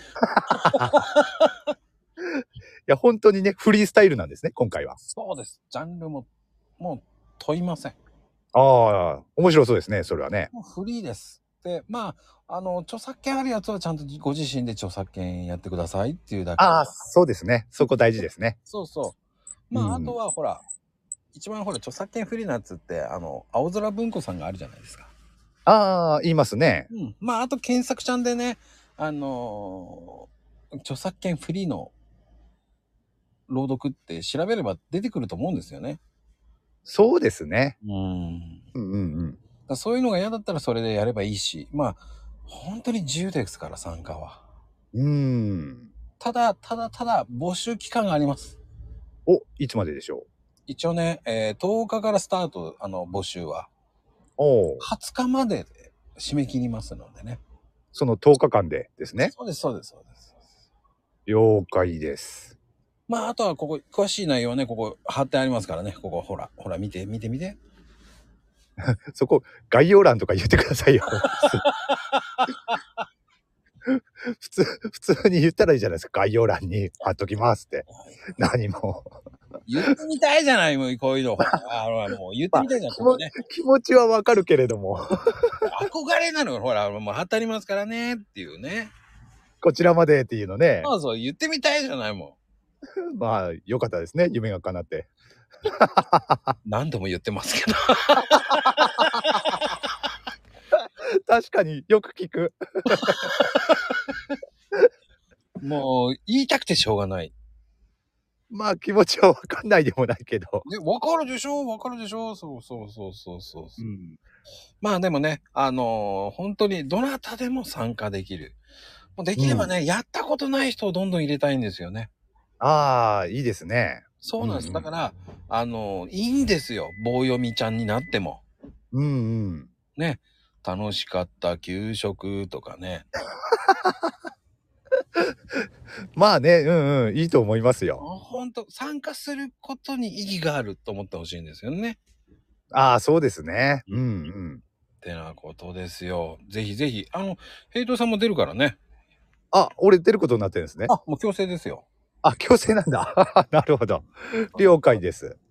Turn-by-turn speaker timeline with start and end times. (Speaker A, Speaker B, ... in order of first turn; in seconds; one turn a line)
Speaker A: 0.2-0.9
Speaker B: 0.5-1.5
Speaker A: 2.9-5.0
Speaker B: 5.0-6.3
Speaker B: 6.8-8.0
Speaker A: 8.5-10.5
Speaker B: 10.5-16.9
Speaker A: 16.6-18.6
Speaker B: 18.7-19.2
Speaker B: 19.7-20.6
Speaker A: 19.7-20.1
Speaker B: 21.3-25.1
Speaker A: 25.6-26.9
Speaker B: 26.9-31.9
Speaker B: 33.5-36.0
Speaker A: 36.9-37.8
Speaker B: 37.8-38.6
Speaker A: 38.7-39.4
Speaker B: 39.7-44.4
Speaker A: 44.9-45.9
Speaker B: 46.2-48.6
Speaker A: 49.2-50.2
Speaker B: 50.7-53.7
Speaker A: 54.4-54.9
Speaker B: 54.8-57.4
Speaker A: 57.9-59.3
Speaker B: 59.2-60.4
Speaker A: 61.3-62.5
Speaker B: 63.1-67.6
Speaker A: 68.8-71.7
Speaker B: 71.3-72.8
Speaker A: 73.8-79.1
Speaker B: 79.7-83.3
Speaker A: 82.5-85.7
Speaker B: 85.7-88.9
Speaker A: 89.6-90.9
Speaker B: 90.8-92.4
Speaker A: 93.0-95.1
Speaker A: 95.7-96.5
Speaker B: 96.6-99.7
Speaker A: 100.8-103.7
Speaker B: 103.0-103.9
Speaker B: 105.6-107.3
Speaker A: 108.5-110.7
Speaker B: 110.6-113.8
Speaker A: 113.8-114.2
Speaker B: 114.8-118.6
Speaker B: 119.2-122.1
Speaker A: 119.3-119.7
Speaker A: 122.6-124.9
Speaker B: 124.2-128.4
Speaker A: 128.9-129.7
Speaker B: 129.9-133.1
Speaker A: 133.6-134.1
Speaker A: 136.2-138.0
Speaker B: 138.0-142.0
Speaker A: 142.7-144.6
Speaker B: 145.0-148.8
Speaker A: 149.5-150.9
Speaker B: 150.9-151.8
Speaker A: 152.2-155.4